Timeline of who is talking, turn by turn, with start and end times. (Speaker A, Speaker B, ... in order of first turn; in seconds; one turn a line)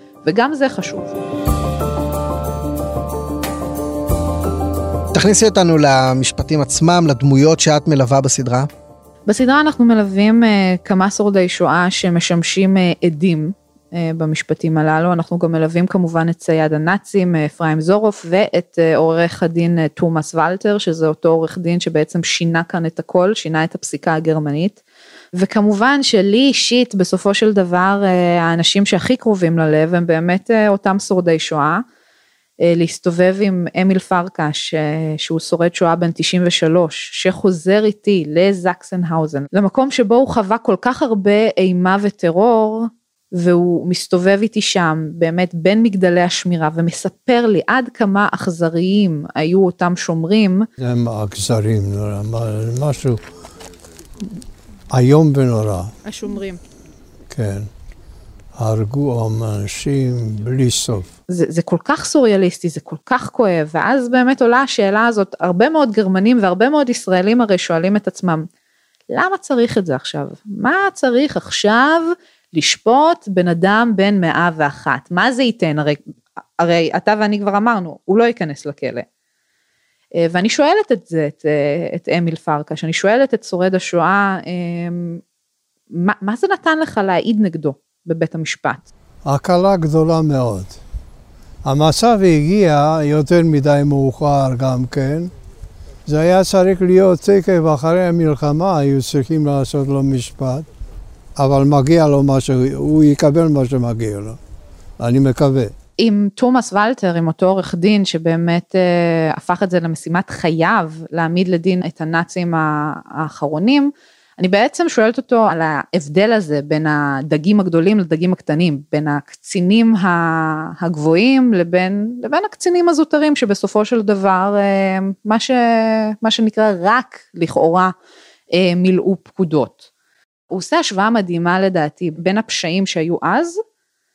Speaker A: 0.2-1.1
Speaker B: 5.1-8.7
Speaker A: 9.3-24.8
Speaker A: 25.4-31.8
Speaker A: 32.6-50.6
Speaker C: 50.8-53.2
Speaker C: 54.9-55.9
Speaker A: 56.0-56.6
Speaker C: 57.3-57.7
Speaker C: 58.6-61.1
Speaker A: 61.3-68.5
Speaker A: 69.1-76.0
Speaker A: 76.6-79.0
Speaker A: 80.2-85.2
Speaker A: 85.9-88.9
Speaker C: 89.3-90.8
Speaker C: 91.7-95.3
Speaker C: 96.1-100.7
Speaker C: 101.4-104.4
Speaker C: 105.0-105.7
Speaker A: 106.0-127.9
Speaker A: 128.5-129.8
Speaker A: 130.5-133.6